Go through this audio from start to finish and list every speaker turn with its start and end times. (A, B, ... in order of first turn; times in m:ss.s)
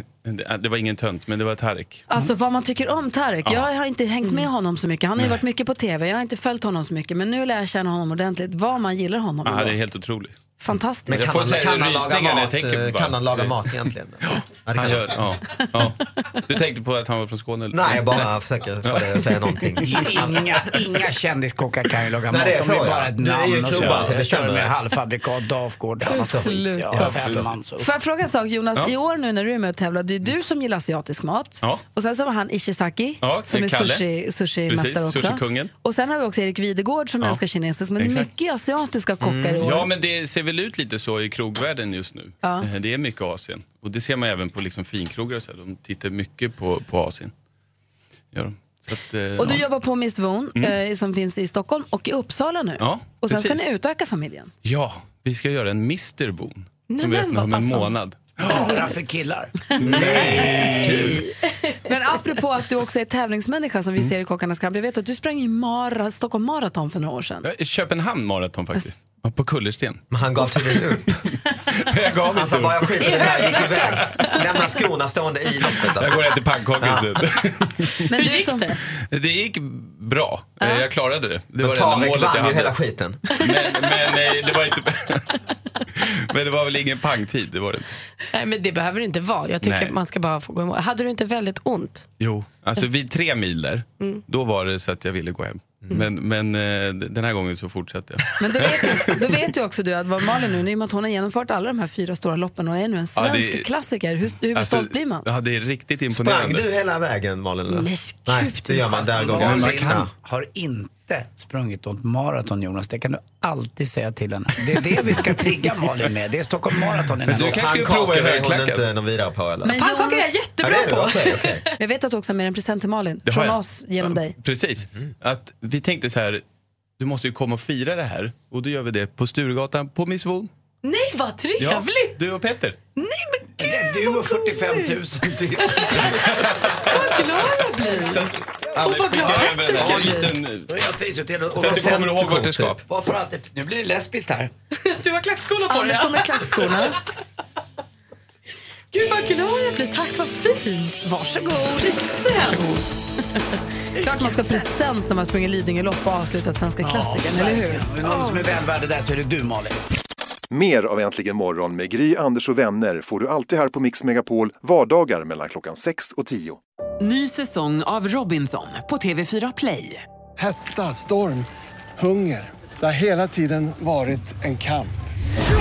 0:00.2-0:02.0 A
0:02.1-0:09.8 B
0:09.4-0:10.4 A
0:10.6-0:11.3 B
0:11.1-0:15.2 C
0:11.1-0:18.3 A
0:17.7-0:20.8 C
0:18.8-0:19.7 A
0:19.8-0:27.9 D
0:22.3-0:24.7 C
0:23.6-0:24.1 A
0:26.0-0:39.9 B
0:26.1-0:26.6 C
0:26.9-0:27.5 A
0:33.2-0:34.0 A
0:34.7-0:35.7 A
0:38.0-0:38.3 A
0:39.2-0:39.6 C
0:39.5-0:47.3 A
0:42.4-0:42.7 B
0:48.3-0:49.6 A
0:49.4-0:54.5 B
0:52.8-0:53.6 A
0:54.6-0:58.8 A
0:56.9-0:58.0 E
0:58.4-1:01.2 D
0:59.8-1:01.2 A
0:59.8-1:01.2 C
0:59.9-1:01.2 B
1:01.8-1:07.5 B
1:07.4-1:10.7 A
1:10.1-1:11.2 C
1:11.7-1:14.4 A
1:12.2-1:17.1 C
1:13.0-1:14.4 B
1:16.0-1:18.0 A
1:18.1-1:18.8 B
1:18.1-1:18.8 E
1:19.0-1:22.8 A
1:20.6-1:20.9 B
1:21.6-1:23.2 C
1:23.3-1:25.3 A
1:25.9-1:27.9 A
1:28.3-1:32.0 E
1:29.6-1:30.0 A
1:32.2-1:39.1 A
1:38.4-1:45.2 B
1:43.2-1:43.7 A
1:44.5-1:46.6 A
1:46.1-1:50.1 C
1:47.7-1:49.7 E
1:49.3-1:57.6 D
1:49.4-1:50.0 A
1:57.3-1:58.8 A
1:57.4-1:59.8 C
1:59.6-2:00.6 B
1:59.8-2:00.5 E
2:00.6-2:01.6 C
2:01.8-2:04.4 B
2:03.2-2:06.4 A
2:07.0-2:10.5 A
2:10.8-2:12.2 E
2:11.6-2:12.8 A
2:13.0-2:14.9 E
2:13.6-2:16.1 D
2:16.0-2:17.4 A
2:16.9-2:18.2 E
2:18.0-2:20.7 A
2:18.7-2:20.3 E
2:19.8-2:20.2 C
2:20.7-2:22.0 D
2:21.5-2:22.8 A
2:21.6-2:22.8 C
2:22.9-2:24.5 D
2:24.8-2:26.4 E
2:25.7-2:27.0 B
2:28.9-2:31.0 E
2:31.0-2:32.8 B
2:33.9-2:37.9 B
2:36.8-2:39.8 D
2:38.1-2:38.4 E
2:40.5-2:46.6 F
2:47.0-2:50.0 G
2:50.4-2:50.9 F
2:52.1-2:54.8 H